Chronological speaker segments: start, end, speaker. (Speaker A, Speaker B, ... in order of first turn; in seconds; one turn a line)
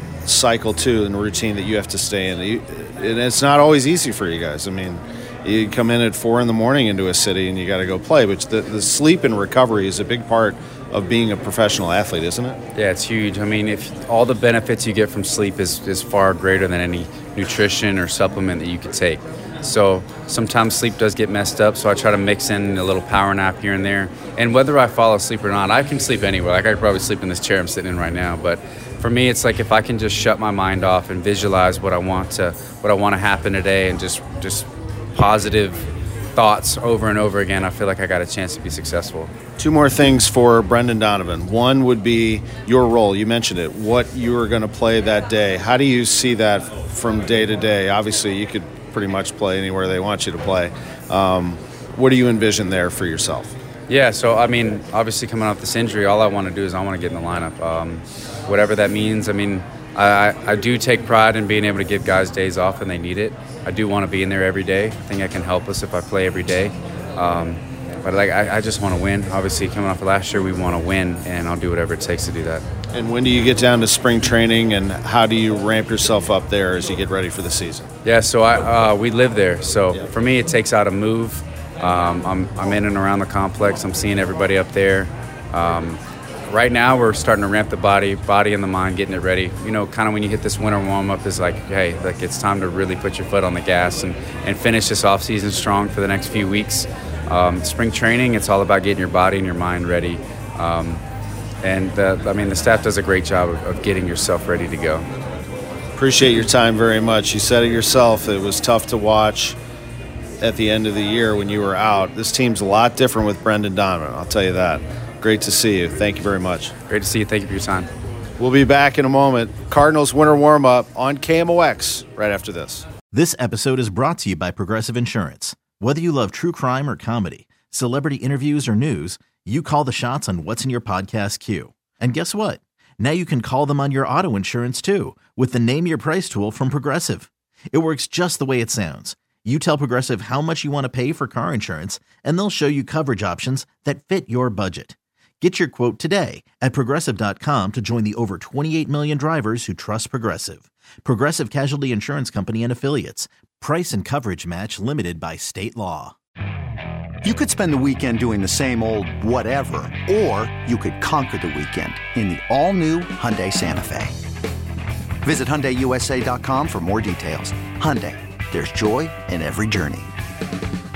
Speaker A: 0.2-12.6
Speaker B: 12.7-39.3
Speaker A: 39.6-53.5
Speaker B: 53.9-72.6
Speaker A: 72.9-77.9
Speaker B: 78.0-101.0
Speaker B: 101.6-105.0
Speaker A: 106.0-109.6
Speaker A: 110.4-116.7
Speaker B: 116.9-117.9
Speaker A: 118.4-122.8
Speaker C: 123.1-156.1
Speaker D: 157.2-164.2
Speaker D: 165.2-170.1